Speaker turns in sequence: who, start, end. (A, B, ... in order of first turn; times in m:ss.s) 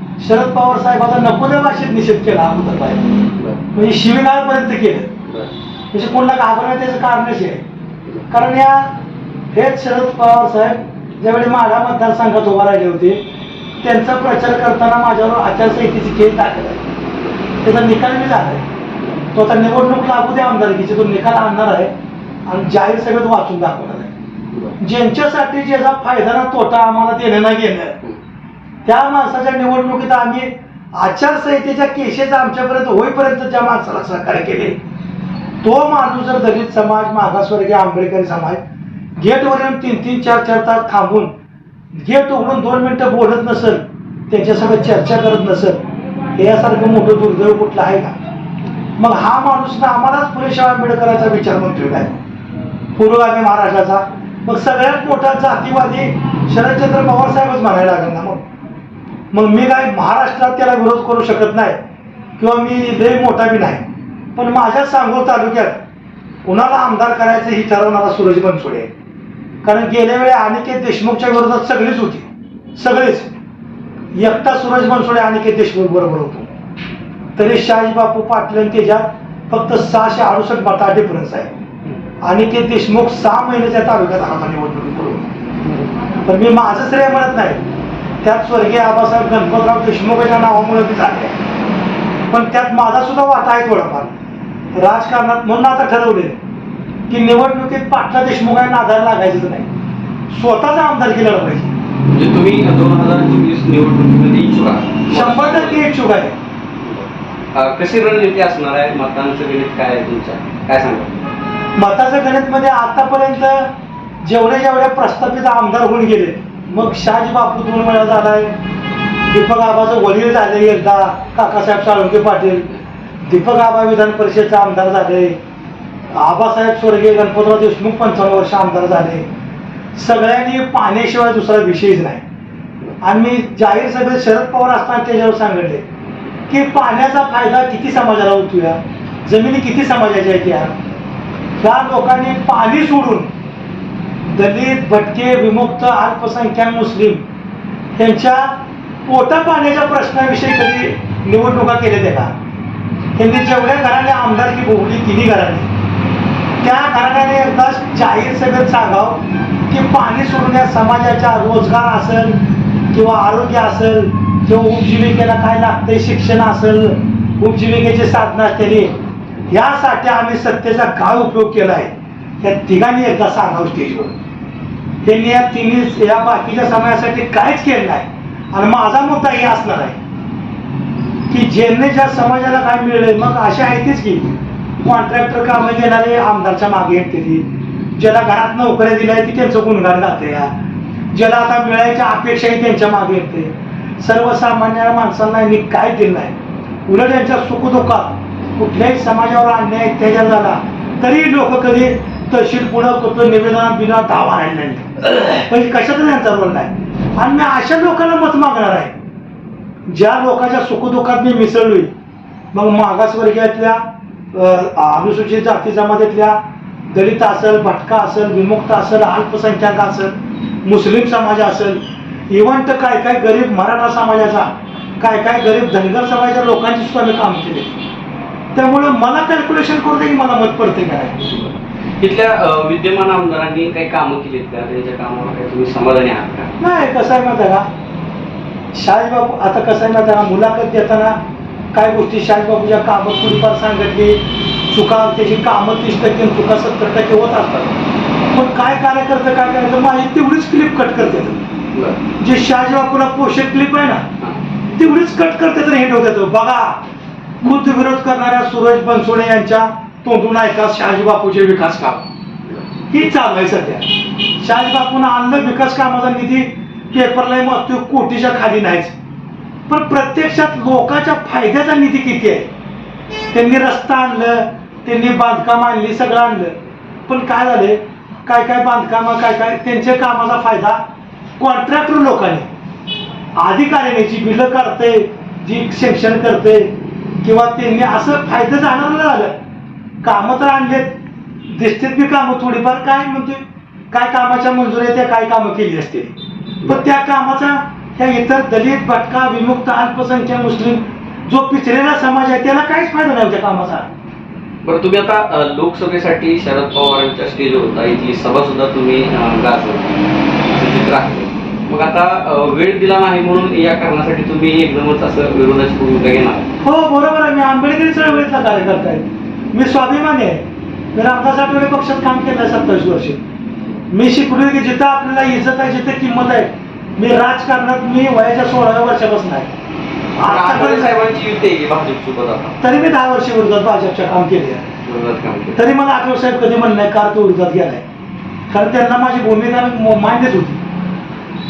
0:00.2-0:03.1 A
0:03.4-0:03.6 B
0:03.7-0:05.1 A
0:05.2-0:05.5 B
0:05.9-0:07.6 A
0:08.3-0:09.0 A
0:09.5-0:13.2 A
0:13.8-0:16.8 A
0:17.6-0:18.6 A
0:19.3-0:21.9 A
0:22.5-0:24.1 A
0:24.5-0:24.8 B
0:24.8-0:28.0 A
0:28.8-0:34.8 A
0:35.6-0:38.6 A
0:39.2-0:41.3 A
0:42.0-0:45.8 A
0:46.4-0:48.1 A
0:49.0-0:52.1 A
0:53.0-0:58.4 A
0:59.3-1:01.8 A
1:02.4-1:03.8 A
1:04.4-1:05.8 A
1:06.4-1:08.9 A
1:09.6-1:13.3 A
1:14.1-1:16.5 A
1:17.4-1:21.5 A
1:22.2-1:25.3 A
1:26.2-1:27.6 A
1:28.2-1:31.3 A
1:32.3-1:34.1 A
1:34.7-1:36.4 A
1:37.1-1:39.7 A
1:40.3-1:41.7 A
1:42.1-1:45.8 B
1:45.1-1:46.4 A
1:46.8-1:51.2 B
1:51.8-1:53.7 A
1:54.2-1:58.5 A
1:59.3-2:02.7 A
2:03.2-2:05.4 A
2:06.1-2:09.2 A
2:09.9-2:12.2 A
2:13.0-2:15.8 A
2:16.5-2:20.8 A
2:21.6-2:23.3 A
2:24.3-2:27.2 A
2:28.0-2:32.3 A
2:33.2-2:35.7 A
2:36.6-2:42.4 A
2:42.9-2:48.9 A
2:49.5-2:54.1 A
2:55.0-3:00.0 A
3:01.3-3:04.2 A
3:04.8-3:10.5 A
3:11.1-3:16.3 A
3:16.9-3:28.9 A
3:29.9-3:31.9 A
3:32.5-3:36.4 A
3:36.9-3:40.1 A
3:40.6-3:47.8 A
3:48.5-3:51.3 A
3:51.3-3:56.6 B
3:56.6-3:57.6 A
3:58.7-4:01.2 A
4:01.7-4:07.7 A
4:08.3-4:11.4 A
4:11.7-4:12.0 B
4:12.2-4:14.1 A
4:14.7-4:16.8 A
4:17.4-4:22.0 A
4:22.9-4:28.9 A
4:29.7-4:32.5 A
4:33.3-4:36.6 A
4:37.1-4:40.8 A
4:41.4-4:42.4 A
4:43.4-4:46.7 A
4:47.2-4:49.4 A
4:50.0-4:50.9 A
4:51.5-5:03.9 A
5:04.6-5:16.5 B
5:16.6-5:20.4 A
5:20.9-5:23.2 A
5:23.9-5:29.5 A
5:30.1-5:31.0 A
5:30.2-5:32.6 B
5:32.6-5:34.6 A
5:34.8-5:35.6 B
5:35.6-5:37.8 A
5:38.5-5:40.6 A